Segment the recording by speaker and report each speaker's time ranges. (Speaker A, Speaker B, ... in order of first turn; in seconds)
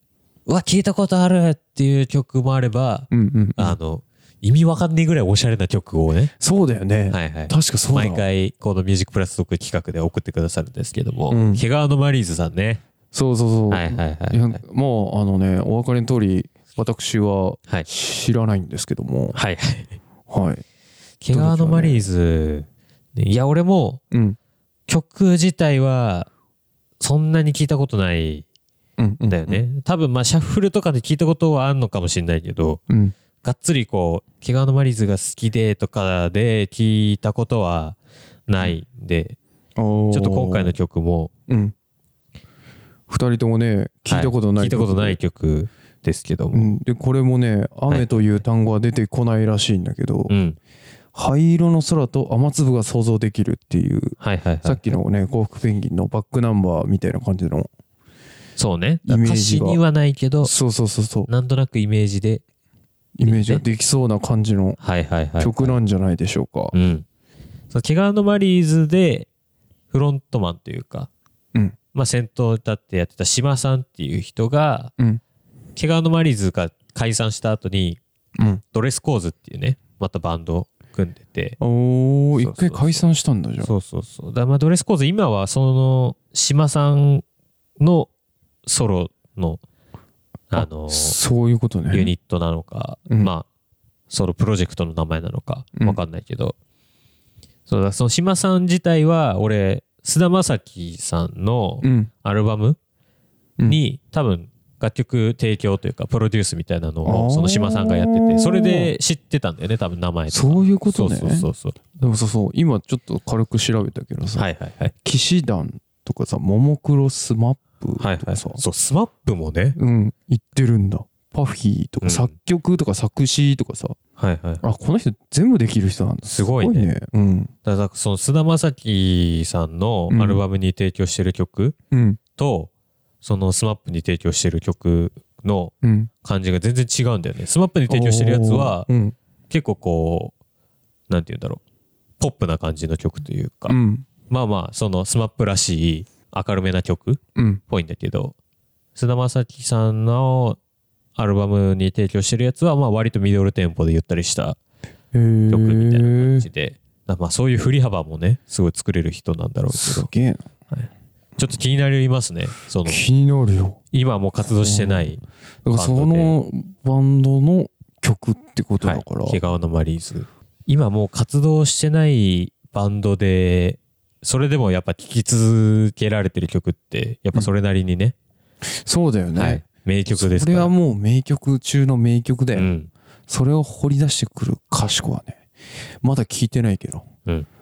Speaker A: 0.5-6.3, 7.1-12.8, 13.7-14.6, 19.3-19.9, 21.2-24.0, 24.9-26.3, 27.0-28.4, 29.3-32.8, 33.4-39.4, 40.1-41.3, 44.1-46.7, 47.9-48.4, 50.3-50.6, 54.2-54.8, 58.6-60.5, 61.3-62.4, 63.2-63.6, 64.8-65.8, 66.7-67.0, 67.7-69.3, 69.9-71.1, 71.9-74.9, 75.8-78.0, 78.7-81.6, 82.3-83.0, 83.6-87.2, 87.8-88.1, 88.7-89.6, 90.5-91.2, 91.9-93.5, 94.1-96.5, 97.7-102.8, 103.6-111.8, 114.4-114.9, 118.0-119.8, 122.0-122.3, 124.2-124.6, 126.2-126.9, 127.6-131.8, 132.4-132.7, 133.2-135.7, 136.2-138.9, 139.5-140.3, 141.1-141.6, 142.2-143.8, 144.3-148.3, 148.9-150.6, 151.2-154.6, 155.5-160.1, 160.7-163.0, 163.9-165.2, 165.7-166.3, 168.8-178.1, 179.3-180.7, 182.5-182.9
Speaker B: 3.1-3.8, 6.4-8.2, 11.3-11.6, 13.1-19.4, 20.3-20.6, 21.3-22.0, 24.1-24.4, 29.0-29.6, 32.9-33.1, 39.8-40.8, 41.5-41.7, 43.1-45.2, 46.5-50.3, 51.1-57.7, 59.0-59.8, 60.4-61.3, 63.2-64.8, 65.4-66.7, 81.6-83.7, 90.5-92.1, 101.8-102.1, 107.0-108.9, 110.3-114.5, 115.0-118.6, 119.8-124.0, 124.6-127.5, 130.1-130.4, 131.9-132.2, 135.8-136.1, 137.9-139.2, 143.7-144.1, 147.3-147.6, 155.1-156.4, 159.7-160.4, 162.8-163.8, 164.6-165.1, 165.6-169.4, 178.6-179.6, 180.1-182.7, 183.3-185.4, 186.0-187.1